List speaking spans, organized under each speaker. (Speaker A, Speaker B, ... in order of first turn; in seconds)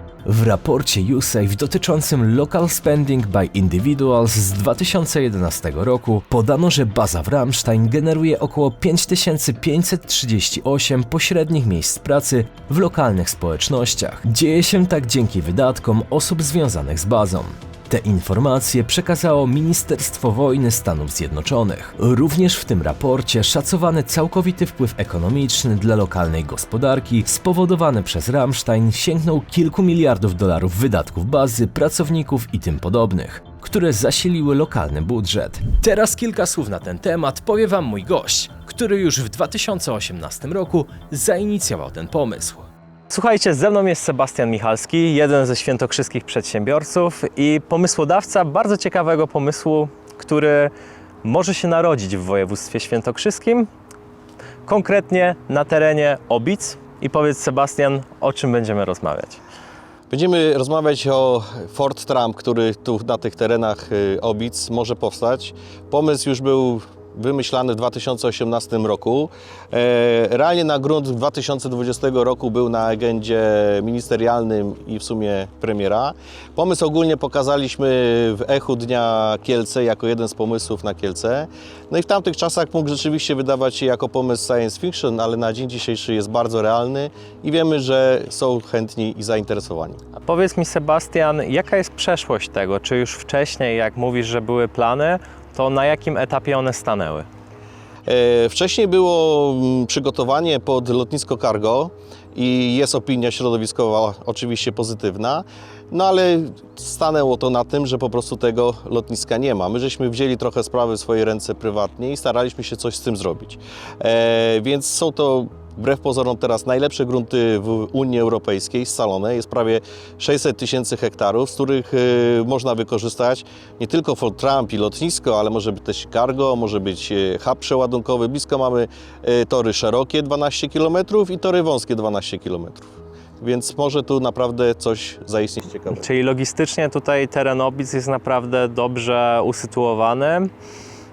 Speaker A: 0.2-42.7
Speaker B: 43.1-50.7, 51.2-53.7, 54.6-59.4, 90.2-97.3, 135.9-140.5
Speaker C: 60.1-90.0, 98.0-132.9, 133.4-136.1